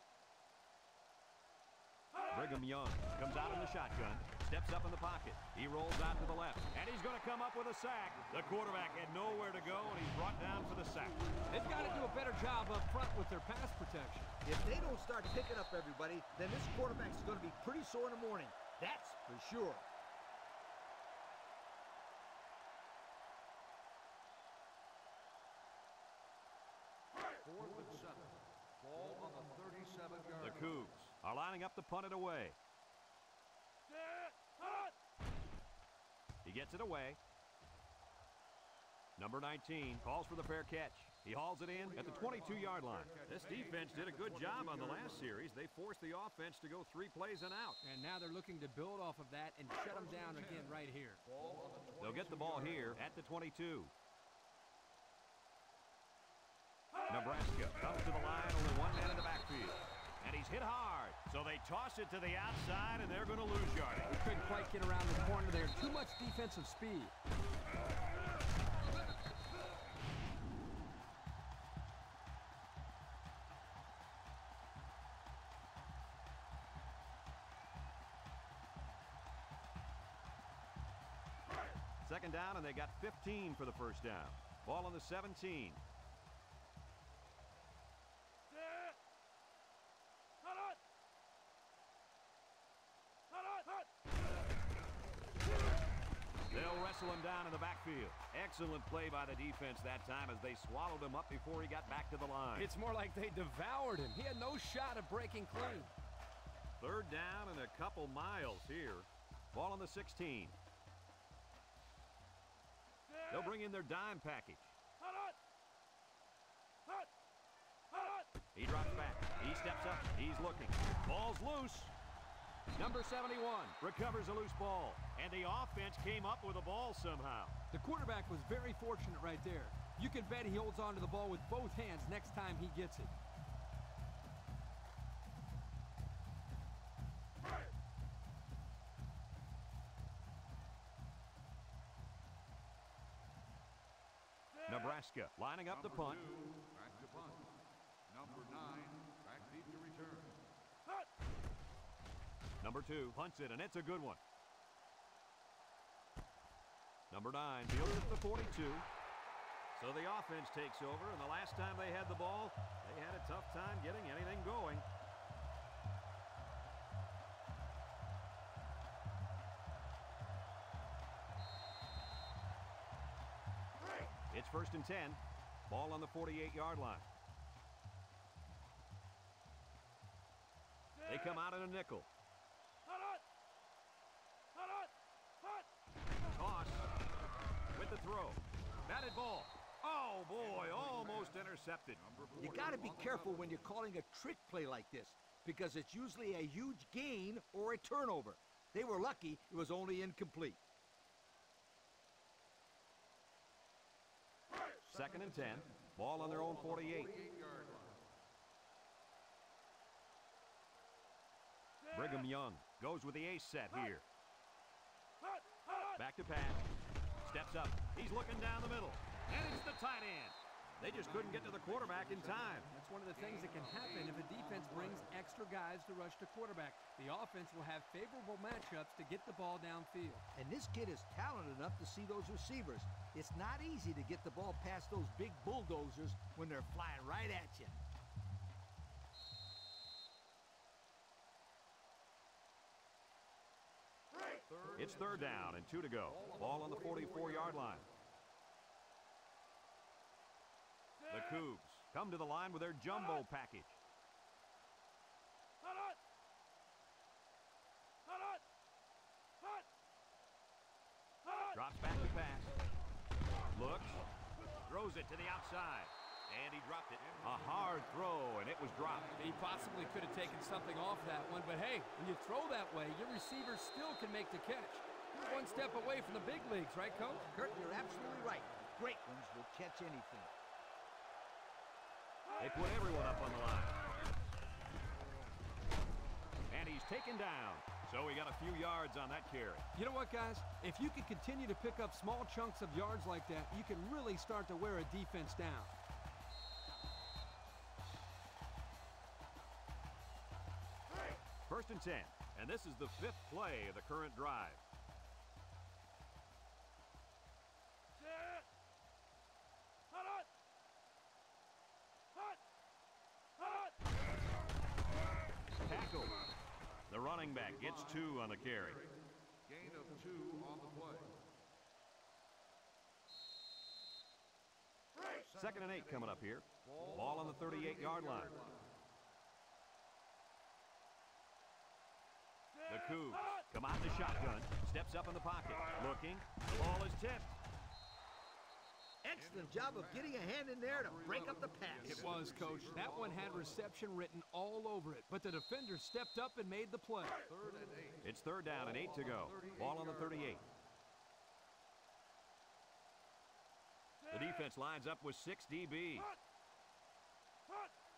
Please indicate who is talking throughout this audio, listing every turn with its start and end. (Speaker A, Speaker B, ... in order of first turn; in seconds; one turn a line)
Speaker A: 2.3-11.4
Speaker B: 8.3-10.7
Speaker C: 11.5-14.3
Speaker D: 14.4-19.9
Speaker B: 27.4-30.9
Speaker A: 30.4-32.5
Speaker A: 36.4-37.2
Speaker A: 39.2-47.8
Speaker B: 41.8-45.3
Speaker C: 47.8-51.2
Speaker B: 49.9-53.0
Speaker A: 52.0-53.9
Speaker A: 57.1-64.1
Speaker C: 64.1-67.1
Speaker A: 82.0-85.8
Speaker A: 96.5-102.7
Speaker C: 102.5-105.9
Speaker A: 106.8-110.5
Speaker A: 113.3-114.7
Speaker A: 118.5-121.9
Speaker A: 122.7-127.5
Speaker C: 127.7-133.1
Speaker A: 144.7-146.3
Speaker B: 145.7-147.6
Speaker B: 148.1-150.4
Speaker A: 152.6-154.2
Speaker A: 157.1-158.8
Speaker A: 159.8-164.8
Speaker A: 174.3-177.1
Speaker A: 181.1-182.1
Speaker A: 186.3-186.9
Speaker A: 187.7-192.0
Speaker B: 190.3-193.6
Speaker D: 192.4-200.6
Speaker B: 204.8-208.0
Speaker A: 204.9-207.1
Speaker A: 211.9-214.0
Speaker A: 216.0-216.6
Speaker A: 217.2-222.7
Speaker B: 220.8-225.2
Speaker C: 222.7-230.2
Speaker D: 230.3-237.8
Speaker B: 244.5-247.7
Speaker A: 244.8-247.8
Speaker A: 251.1-253.8
Speaker A: 261.5-262.5
Speaker A: 263.5-264.0
Speaker A: 264.6-269.2
Speaker B: 268.8-271.1
Speaker C: 269.1-277.3
Speaker D: 277.3-280.3
Speaker A: 282.4-283.8
Speaker A: 286.5-289.6
Speaker C: 289.7-295.7
Speaker A: 301.5-304.6
Speaker A: 315.6-316.2
Speaker A: 316.9-318.8
Speaker B: 317.3-321.2
Speaker B: 325.3-328.7
Speaker A: 325.3-328.3
Speaker A: 332.7-337.4
Speaker D: 339.0-342.3
Speaker B: 339.2-343.6
Speaker C: 341.8-347.2
Speaker B: 347.3-350.4
Speaker A: 348.0-350.4
Speaker A: 354.1-356.1